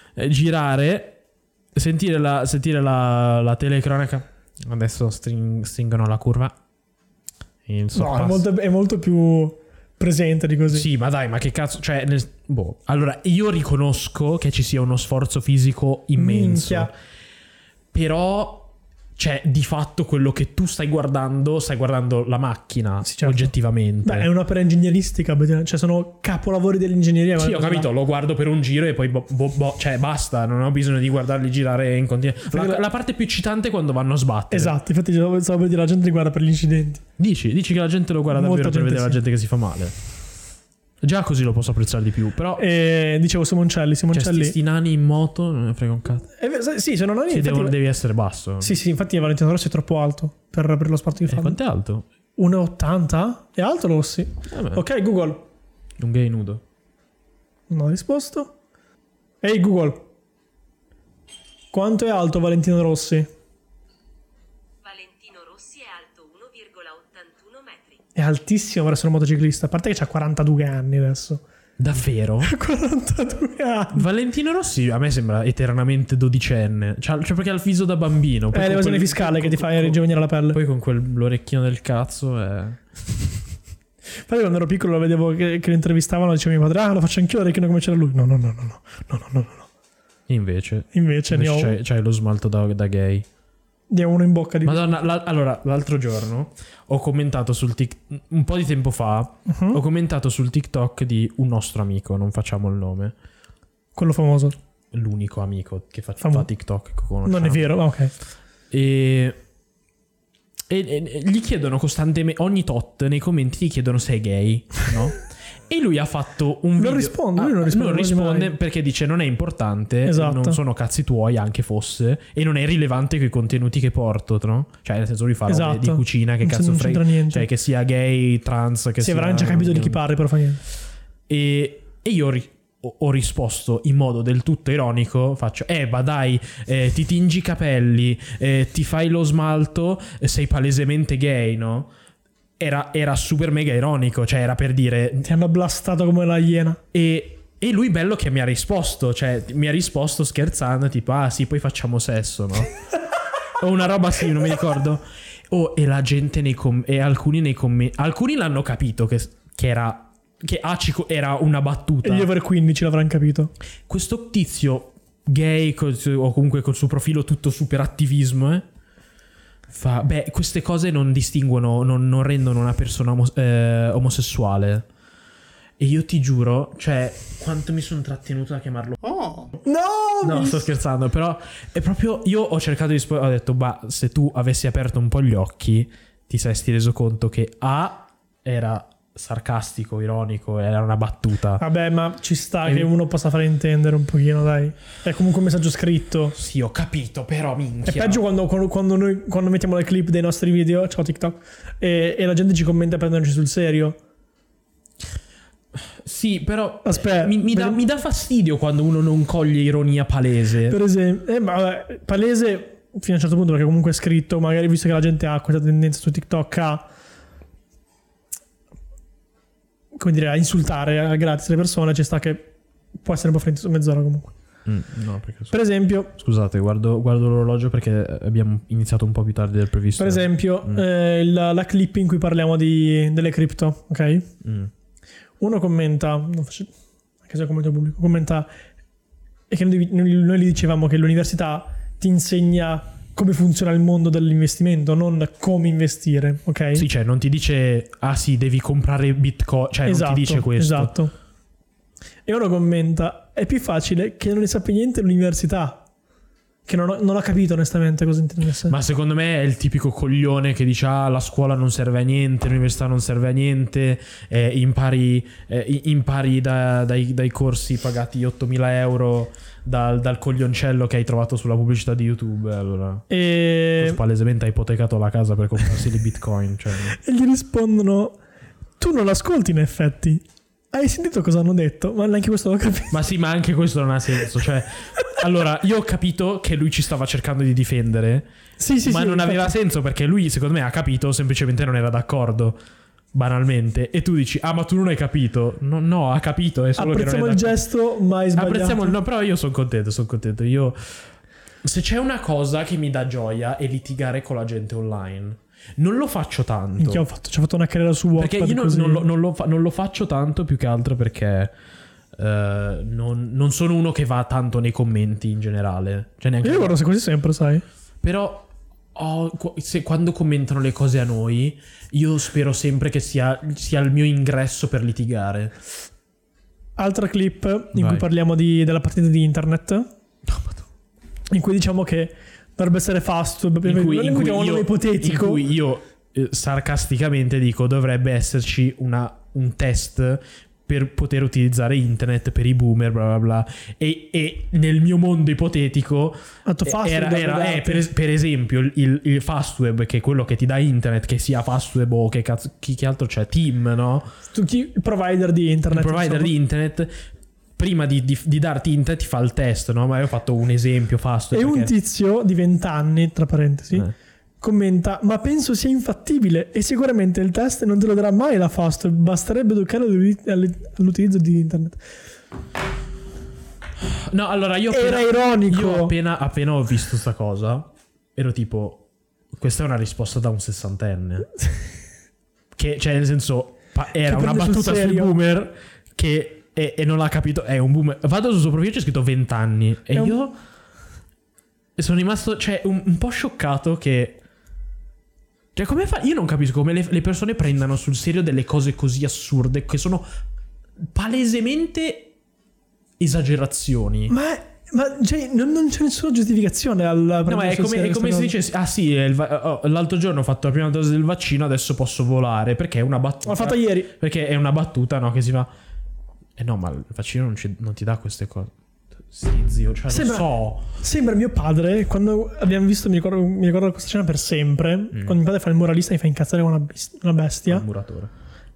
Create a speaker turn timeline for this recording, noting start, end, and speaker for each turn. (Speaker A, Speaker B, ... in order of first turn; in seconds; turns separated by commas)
Speaker A: 0.2-1.2, Speaker A: 1.7-6.6, Speaker A: 7.7-8.4, Speaker B: 7.9-10.9, Speaker A: 10.7-16.9, Speaker B: 16.2-16.9, Speaker A: 17.9-24.3, Speaker B: 23.0-23.5, Speaker B: 24.0-27.9, Speaker A: 27.4-34.8, Speaker B: 32.5-32.8, Speaker B: 34.5-37.0, Speaker A: 37.2-40.0, Speaker B: 38.3-39.2, Speaker A: 41.0-42.6, Speaker B: 42.6-44.6, Speaker A: 44.1-46.3, Speaker B: 46.4-47.8, Speaker A: 47.3-48.8, Speaker B: 48.6-51.6, Speaker A: 51.3-52.1, Speaker B: 52.4-55.5, Speaker A: 54.5-54.8, Speaker A: 56.0-56.6, Speaker B: 57.7-58.5, Speaker B: 59.4-60.1, Speaker B: 61.7-63.3, Speaker C: 64.8-68.0, Speaker B: 68.2-71.4, Speaker A: 71.8-72.5, Speaker B: 72.4-74.1, Speaker A: 73.9-83.0, Speaker B: 78.5-80.6, Speaker B: 84.3-89.7, Speaker A: 90.3-93.3, Speaker B: 90.9-91.8, Speaker B: 93.9-94.9, Speaker A: 94.6-103.2, Speaker B: 99.5-99.8, Speaker B: 104.0-104.6, Speaker A: 104.9-107.8, Speaker B: 106.2-106.5, Speaker B: 107.2-108.1, Speaker A: 108.7-109.4, Speaker A: 110.7-130.0, Speaker B: 116.8-118.5, Speaker B: 120.0-120.6, Speaker B: 125.5-127.5, Speaker B: 129.0-130.6, Speaker A: 131.3-141.9, Speaker A: 142.6-145.3, Speaker B: 145.2-146.8, Speaker A: 146.9-152.8, Speaker A: 153.6-162.3, Speaker B: 162.0-163.5, Speaker A: 163.9-168.7, Speaker A: 169.7-174.9, Speaker A: 175.8-179.4, Speaker B: 179.6-180.7, Speaker A: 180.2-191.6, Speaker B: 191.6-196.4, Speaker A: 192.6-192.9, Speaker A: 196.3-198.2, Speaker B: 197.8-204.0, Speaker A: 205.8-210.8, Speaker B: 206.8-207.8, Speaker B: 210.7-216.9, Speaker B: 219.9-224.3, Speaker A: 224.7-225.6, Speaker B: 225.5-226.1, Speaker A: 226.1-230.8, Speaker B: 230.0-234.3, Speaker A: 234.4-234.7, Speaker B: 235.4-236.7, Speaker B: 237.2-238.5, Speaker B: 239.5-246.8, Speaker A: 246.8-250.9, Speaker B: 249.8-251.1, Speaker B: 252.3-255.8, Speaker B: 256.7-258.8, Speaker A: 258.7-273.1, Speaker B: 273.1-274.0, Speaker A: 273.8-277.0, Speaker B: 276.9-278.2, Speaker B: 278.8-283.0, Speaker A: 282.9-288.3, Speaker B: 288.6-289.5, Speaker A: 288.9-292.6, Speaker A: 293.1-297.6, Speaker B: 296.8-299.0, Speaker A: 298.4-301.1, Speaker A: 301.6-307.1, Speaker B: 306.8-309.1, Speaker A: 308.2-311.5, Speaker A: 312.1-316.8, Speaker B: 316.4-317.6, Speaker A: 318.0-325.6, Speaker B: 326.8-329.9, Speaker A: 327.7-328.1, Speaker A: 330.3-330.6, Speaker B: 331.3-335.4, Speaker A: 333.6-354.1, Speaker B: 346.5-347.9, Speaker B: 354.3-356.3, Speaker A: 355.7-357.0, Speaker A: 357.6-361.7, Speaker B: 361.3-363.9, Speaker B: 364.4-371.8, Speaker A: 373.8-381.3, Speaker B: 374.7-375.9, Speaker A: 382.6-390.4, Speaker B: 384.0-385.1, Speaker A: 391.8-394.2, Speaker A: 395.6-400.1, Speaker A: 400.8-402.1, Speaker A: 403.0-404.1, Speaker B: 404.1-408.4, Speaker A: 407.3-415.5, Speaker B: 413.3-413.9, Speaker A: 416.4-420.7, Speaker B: 419.9-427.6, Speaker A: 427.5-428.1